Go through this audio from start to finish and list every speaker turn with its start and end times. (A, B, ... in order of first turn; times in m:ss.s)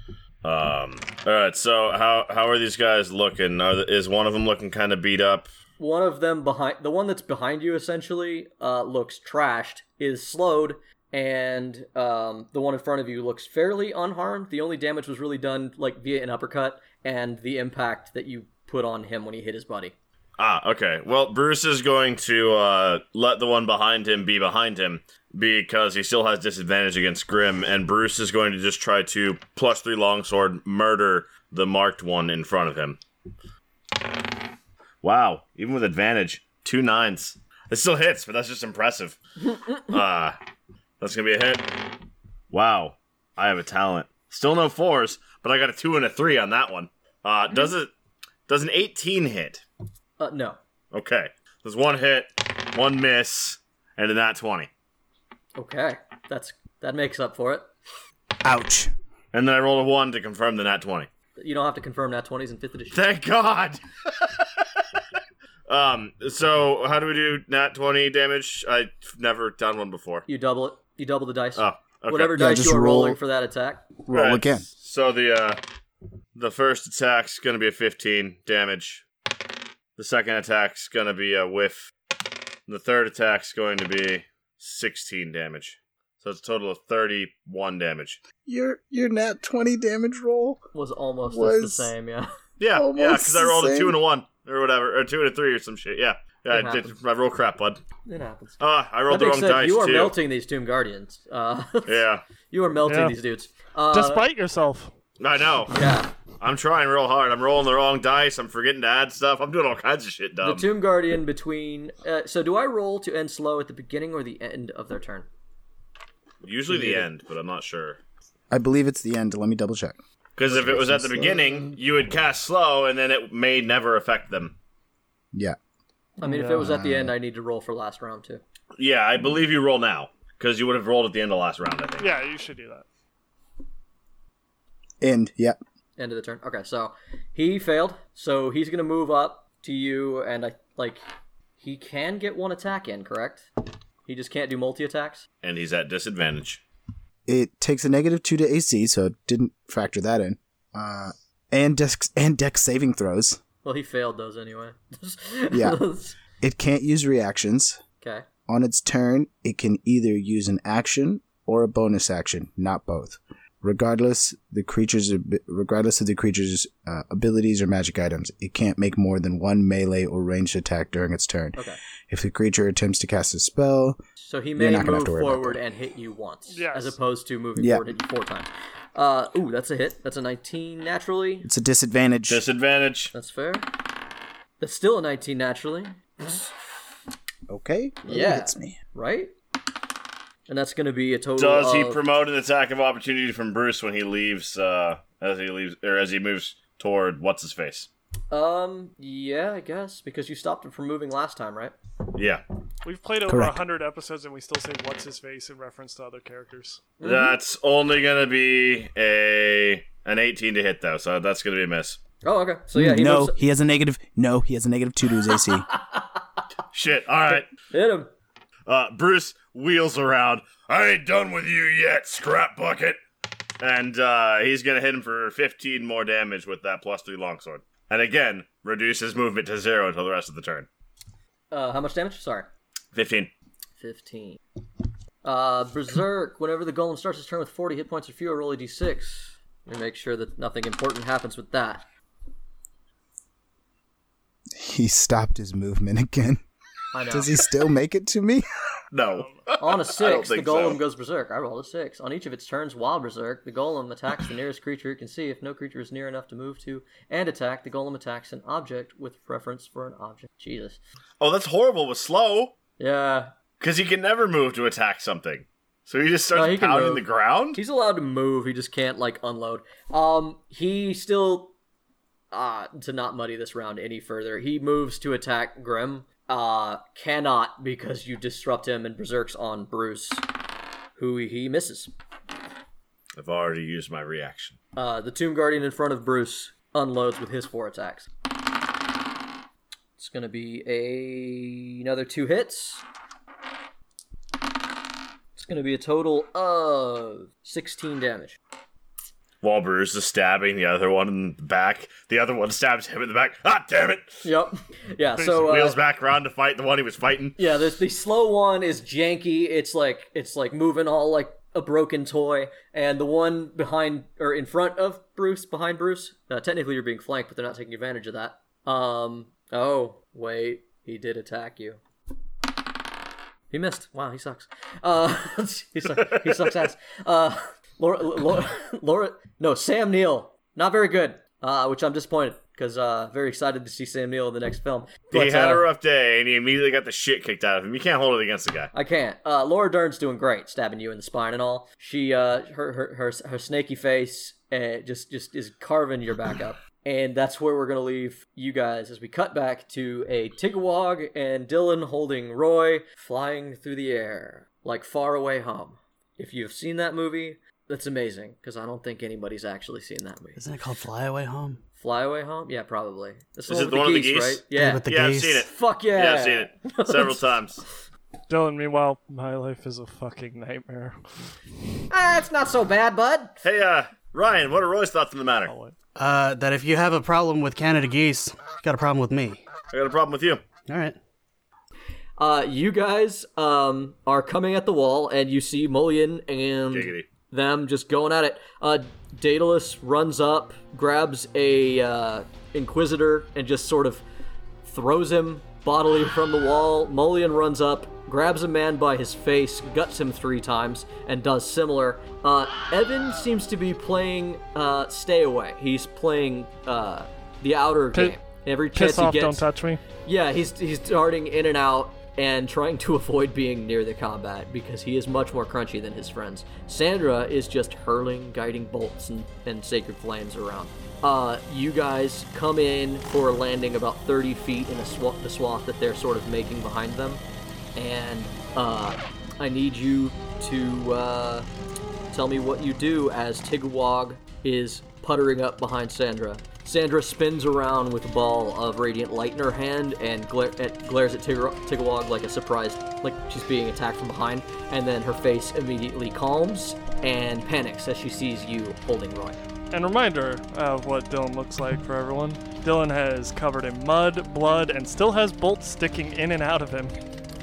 0:00.4-0:05.5 A
0:05.8-0:20.0 B
0:20.4-0:33.0 A
0:35.0-0:40.4 A
0:41.0-0:41.8 A
0:42.5-0:47.9 A
0:48.5-0:49.6 A
0:50.2-0:50.6 B
0:50.9-0:54.7 A
0:55.6-0:57.7 B
0:58.4-0:58.9 C
0:59.3-1:01.1 A
1:01.4-1:03.0 B
1:02.9-1:04.6 A
1:05.7-1:10.3 A
1:10.3-1:13.9 B
1:11.6-1:12.4 A
1:12.3-1:13.2 C
1:14.0-1:14.7 C
1:14.1-1:15.6 A
1:16.4-1:19.1 A
1:20.0-1:21.9 A
1:22.7-1:28.2 A
1:28.4-1:30.6 C
1:30.7-1:32.3 B
1:31.3-1:31.9 C
1:32.6-1:37.8 A
1:32.7-1:34.0 C
1:36.5-1:37.0 B
1:38.1-1:44.2 B
1:38.6-1:40.2 A
1:41.9-1:42.2 A
1:42.9-1:43.2 D
1:43.9-1:44.9 D
1:45.2-1:45.8 A
1:45.7-1:46.1 B
1:46.4-1:50.7 A
1:50.4-1:55.3 B
1:56.4-1:58.0 A
1:58.5-2:01.7 C
2:00.4-2:04.6 A
2:06.2-2:08.4 B
2:06.2-2:06.6 D
2:06.5-2:07.1 C
2:08.8-2:12.1 A
2:12.0-2:12.8 D
2:15.0-2:15.6 C
2:16.0-2:21.0 B
2:21.6-2:23.5 B
2:24.0-2:25.3 B
2:25.4-2:26.6 A
2:27.3-2:33.4 C
2:33.6-2:36.2 B
2:35.5-2:35.8 C
2:36.4-2:37.8 C
2:38.0-2:38.3 B
2:38.5-2:54.0 C
2:54.2-3:01.5 B
2:54.6-2:55.6 C
2:56.5-2:57.0 D
2:57.6-2:57.9 C
3:01.4-3:02.4 C
3:02.3-3:03.1 A
3:03.1-3:03.7 B
3:04.6-3:06.5 B
3:07.5-3:08.8 C
3:08.0-3:09.3 B
3:10.5-3:12.0 B
3:11.4-3:17.9 A
3:18.3-3:21.8 B
3:22.1-3:22.4 A
3:22.8-3:26.9 D
3:23.3-3:23.6 C
3:27.0-3:27.4 B
3:27.0-3:32.0 A
3:32.2-3:33.4 B
3:32.8-3:35.7 C
3:35.7-3:36.0 B
3:36.7-3:37.5 A
3:37.6-3:38.1 B
3:38.7-3:43.0 A
3:43.6-3:50.7 A
3:51.5-3:52.5 B
3:52.9-3:53.3 A
3:53.8-3:54.4 B
3:55.2-4:01.9 B
4:04.5-4:06.4 C
4:06.9-4:07.3 B
4:07.1-4:08.4 C
4:08.9-4:10.8 A
4:09.6-4:20.8 B
4:21.2-4:22.6 A
4:22.8-4:23.3 B
4:23.6-4:27.6 A
4:26.3-4:31.6 B
4:32.3-4:40.3 B
4:41.0-4:41.9 B
4:43.2-4:44.6 A
4:44.8-4:48.1 B
4:50.0-4:52.8 B
4:55.4-4:58.4 B
4:59.4-5:04.2 A
5:04.2-5:05.8 B
5:05.3-5:07.4 A
5:07.4-5:21.8 B
5:23.5-5:35.7 B
5:35.1-5:38.7 A
5:38.7-6:00.4 B
6:00.4-6:01.6 E
6:01.8-6:04.8 B
6:03.5-6:07.6 A
6:04.6-6:05.4 E
6:05.4-6:07.2 B
6:08.3-6:11.0 D
6:11.9-6:13.4 B
6:13.4-6:15.5 A
6:15.4-6:15.8 D
6:16.0-6:19.4 E
6:19.7-6:20.4 A
6:20.7-6:21.0 E
6:22.2-6:34.0 B
6:26.7-6:27.1 A
6:34.6-6:49.4 B
6:48.8-6:49.8 D
6:50.0-7:07.2 B
7:07.8-7:11.5 B
7:12.1-7:29.4 B
7:29.7-7:37.0 D